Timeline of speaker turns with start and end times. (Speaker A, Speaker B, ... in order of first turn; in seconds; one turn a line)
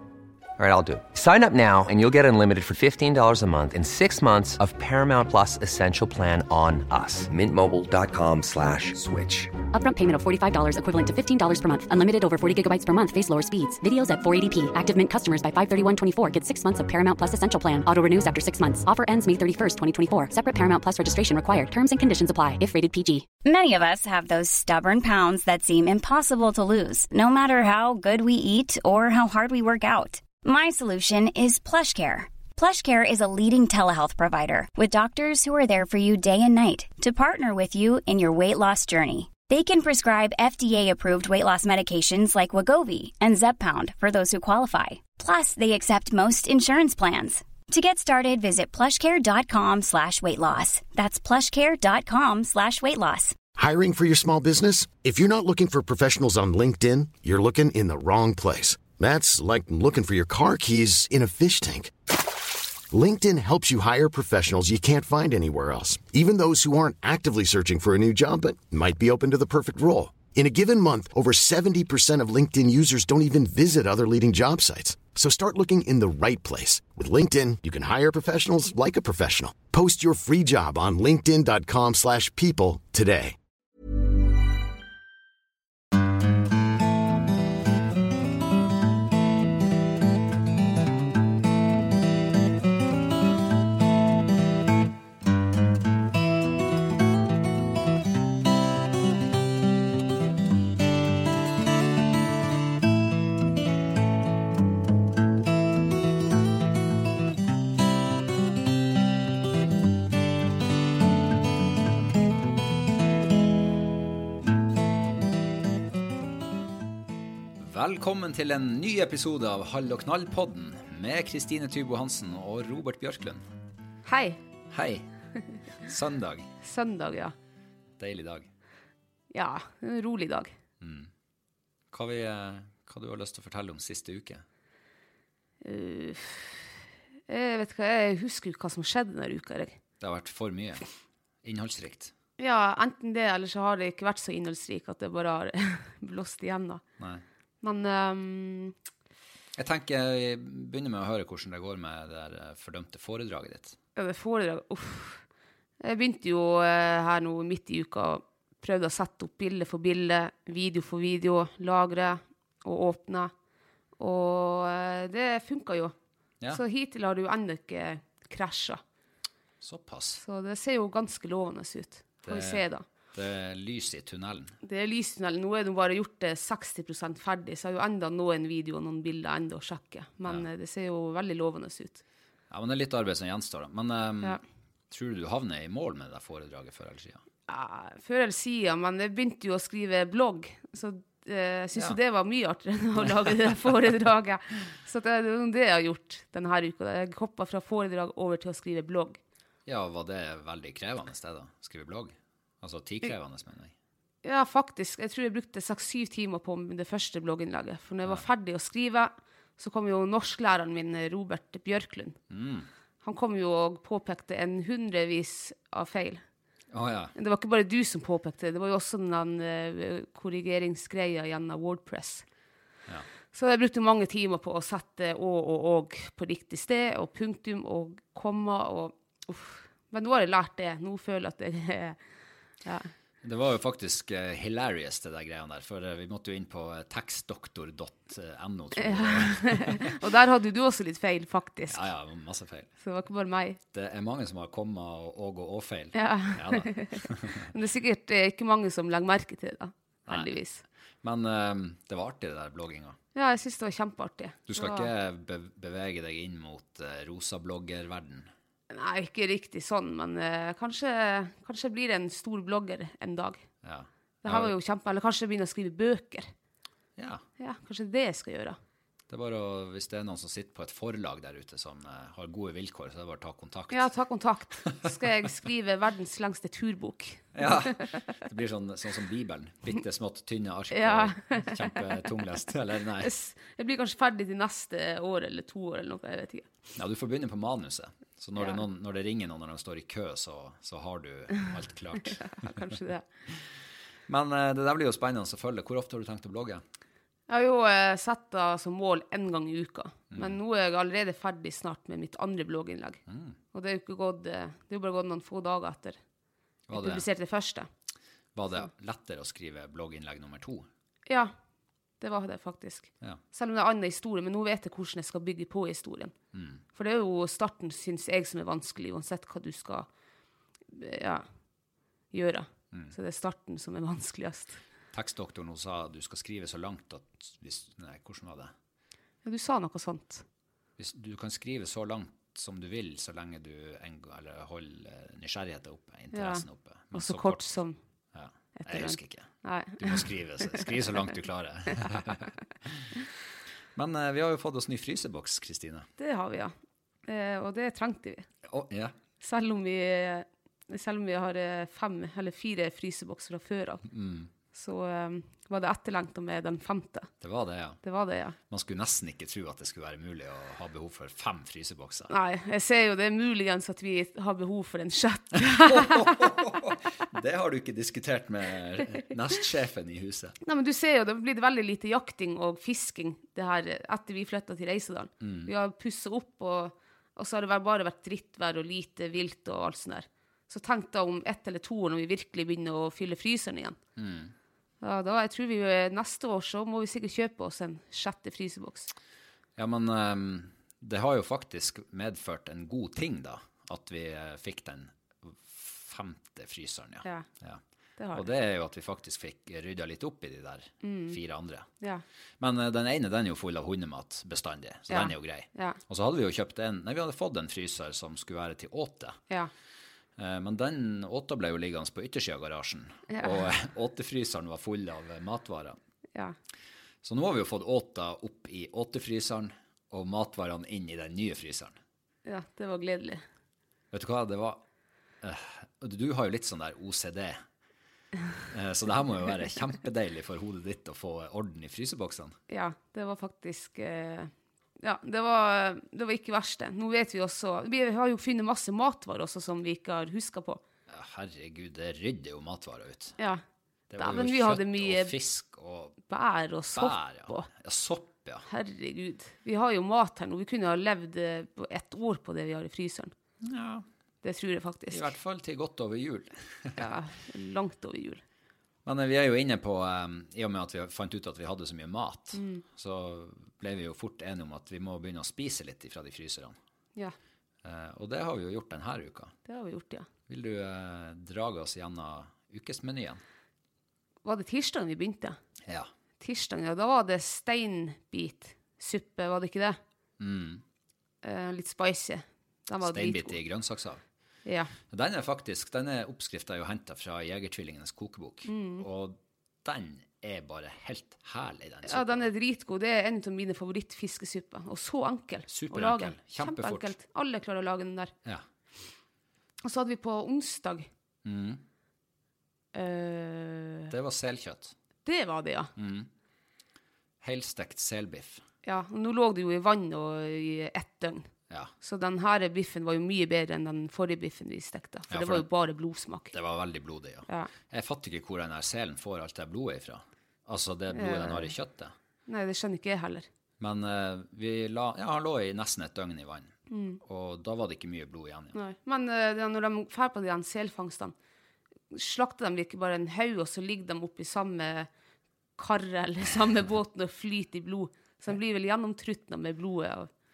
Speaker A: 0.6-9.5
Speaker B: 9.7-23.3
Speaker C: 23.4-53.4
Speaker D: 53.5-61.9
Speaker D: 62.9-83.4
Speaker E: 117.6-123.4
Speaker F: 124.0-124.4
Speaker E: 124.7-125.1
Speaker E: 125.8-126.5
Speaker F: 126.6-127.3
Speaker E: 128.0-128.5
Speaker F: 129.3-130.5
Speaker E: 130.8-131.1
Speaker E: 131.9-134.4
Speaker F: 135.6-139.8
Speaker E: 140.0-140.9
Speaker E: 141.4-142.1
Speaker F: 142.4-146.8
Speaker F: 147.6-148.7
Speaker E: 149.6-153.8
Speaker F: 153.9-155.2
Speaker F: 155.8-163.3
Speaker F: 164.0-165.9
Speaker F: 166.5-168.8
Speaker E: 169.6-170.2
Speaker F: 170.2-172.8
Speaker E: 172.2-174.6
Speaker F: 174.6-182.0
Speaker E: 182.5-184.4
Speaker E: 184.9-187.2
Speaker F: 187.5-199.2
Speaker E: 193.0-193.7
Speaker E: 199.7-203.7
Speaker F: 204.2-212.2
Speaker E: 212.3-212.7
Speaker F: 213.0-216.2
Speaker E: 216.7-217.1
Speaker F: 217.1-222.2
Speaker F: 223.3-232.0
Speaker F: 232.6-232.9
Speaker E: 233.2-239.9
Speaker F: 238.8-241.8
Speaker E: 241.7-242.7
Speaker F: 242.8-243.6
Speaker E: 243.7-247.5
Speaker F: 245.9-250.6
Speaker E: 251.0-253.0
Speaker F: 253.1-254.9
Speaker E: 254.5-258.3
Speaker F: 258.7-263.4
Speaker E: 263.6-264.5
Speaker F: 264.2-266.3
Speaker E: 267.0-267.2
Speaker F: 267.4-268.6
Speaker E: 269.1-273.9
Speaker F: 273.7-277.8
Speaker E: 277.3-283.1
Speaker F: 280.7-281.8
Speaker F: 283.0-286.5
Speaker E: 286.8-292.8
Speaker F: 288.4-288.6
Speaker F: 292.1-293.1
Speaker E: 294.1-296.6
Speaker F: 297.3-303.0
Speaker E: 300.1-300.4
Speaker E: 303.1-303.4
Speaker F: 303.5-306.0
Speaker E: 306.7-307.1
Speaker F: 306.7-307.7
Speaker E: 308.3-310.7
Speaker F: 311.1-311.3
Speaker F: 312.0-316.1
Speaker E: 316.3-316.6
Speaker F: 316.7-319.9
Speaker F: 320.7-321.3
Speaker F: 322.1-324.6
Speaker E: 324.9-328.5
Speaker F: 329.2-330.2
Speaker E: 330.8-337.5
Speaker F: 336.1-337.8
Speaker E: 338.1-343.1
Speaker F: 338.6-340.6
Speaker E: 343.8-345.9
Speaker F: 346.0-348.3
Speaker E: 348.5-348.9
Speaker F: 349.2-353.8
Speaker E: 353.9-354.3
Speaker F: 354.5-357.1
Speaker E: 357.2-357.8
Speaker F: 357.8-358.4
Speaker E: 358.5-362.1
Speaker F: 362.1-366.3
Speaker E: 365.4-370.4
Speaker F: 370.4-383.8
Speaker E: 375.2-375.5
Speaker E: 384.0-384.3
Speaker F: 384.8-388.9
Speaker E: 389.6-401.7
Speaker F: 398.0-398.3
Speaker F: 400.8-401.2
Speaker E: 402.4-409.2
Speaker F: 404.9-405.8
Speaker E: 410.2-415.8
Speaker F: 413.1-413.5
Speaker E: 417.0-421.8
Speaker F: 422.2-423.2
Speaker E: 423.9-424.6
Speaker E: 425.2-427.4
Speaker E: 428.5-432.4
Speaker F: 432.5-440.6
Speaker E: 440.9-443.2
Speaker E: 443.9-446.0
Speaker F: 444.0-445.1
Speaker F: 446.1-447.5
Speaker E: 446.8-448.4
Speaker F: 448.5-453.1
Speaker E: 453.4-453.8
Speaker F: 454.2-455.1
Speaker E: 454.9-456.9
Speaker F: 456.8-458.2
Speaker E: 458.8-466.6
Speaker F: 462.3-462.6
Speaker E: 467.6-469.3
Speaker F: 469.5-470.1
Speaker E: 470.3-473.2
Speaker F: 474.2-475.4
Speaker F: 476.2-479.8
Speaker E: 480.2-480.6
Speaker F: 481.2-483.4
Speaker E: 482.8-484.0
Speaker F: 484.4-484.7
Speaker E: 484.9-492.3
Speaker F: 488.4-488.8
Speaker F: 491.9-498.1
Speaker E: 495.5-496.9
Speaker F: 499.6-500.9
Speaker E: 501.2-501.6
Speaker F: 502.7-503.9
Speaker E: 503.9-504.7
Speaker F: 505.0-505.7
Speaker E: 505.8-506.1
Speaker E: 507.2-508.4
Speaker F: 508.6-511.3
Speaker F: 511.8-516.3
Speaker E: 515.1-515.5
Speaker E: 516.3-521.9
Speaker F: 520.9-521.5
Speaker F: 522.3-523.3
Speaker E: 523.6-528.5
Speaker F: 526.7-527.0
Speaker F: 528.5-531.1
Speaker F: 531.9-534.9
Speaker F: 535.6-540.1